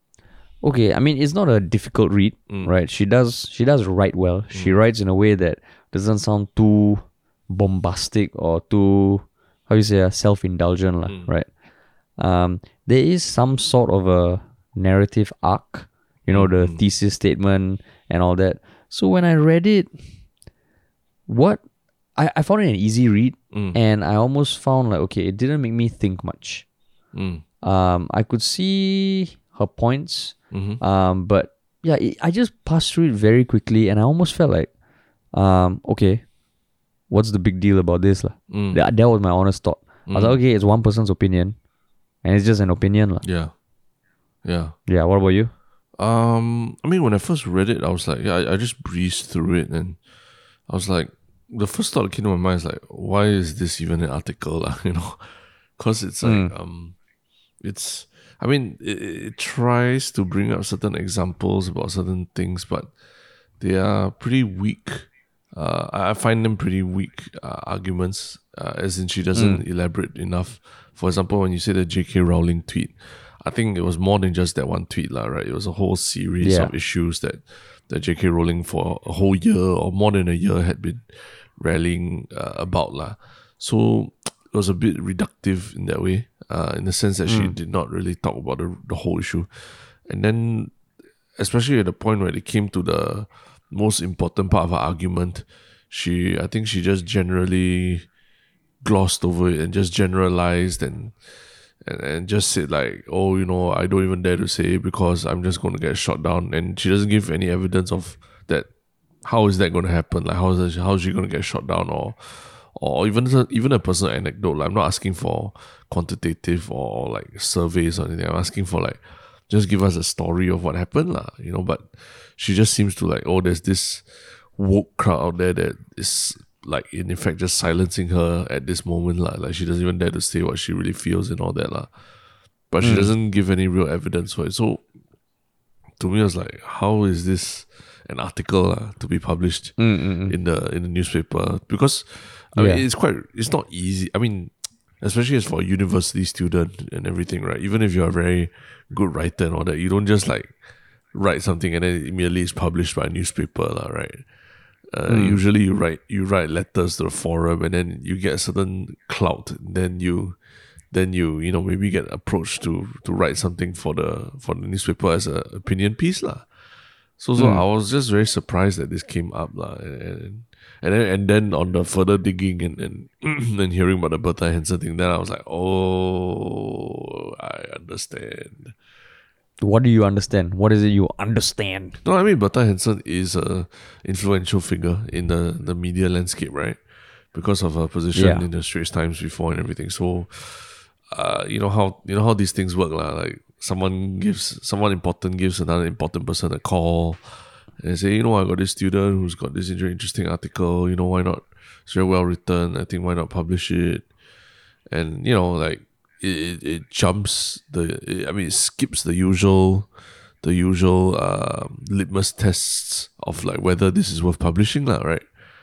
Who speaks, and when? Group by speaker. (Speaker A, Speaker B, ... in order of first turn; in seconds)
Speaker A: 0.6-11.5, 12.2-19.9, 21.3-21.6, 22.2-26.6, 27.6-34.7, 35.3-36.2, 37.1-41.6, 42.2-43.2, 44.9-45.5, 56.2-56.5, 69.3-69.6, 76.4-76.7, 87.3-87.5, 132.8-133.1, 139.8-140.4, 142.6-142.8, 155.1-155.4, 167.4-167.6, 179.6-182.0, 188.1-188.4
Speaker B: 4.5-4.8, 11.1-11.3, 16.3-16.8, 23.5-23.8, 27.1-27.4, 30.5-30.8, 38.5-38.8, 40.1-40.4, 43.2-43.5, 44.4-44.8, 46.0-50.0, 50.7-57.0, 57.6-62.9, 63.6-90.7, 91.4-98.1, 98.8-101.3, 101.8-108.7, 109.2-132.0, 132.7-134.8, 136.0-150.6, 151.1-154.2, 154.9-160.4, 160.9-166.5, 167.2-178.8, 182.0-186.8, 187.3-204.1, 204.9-209.9, 210.4-215.3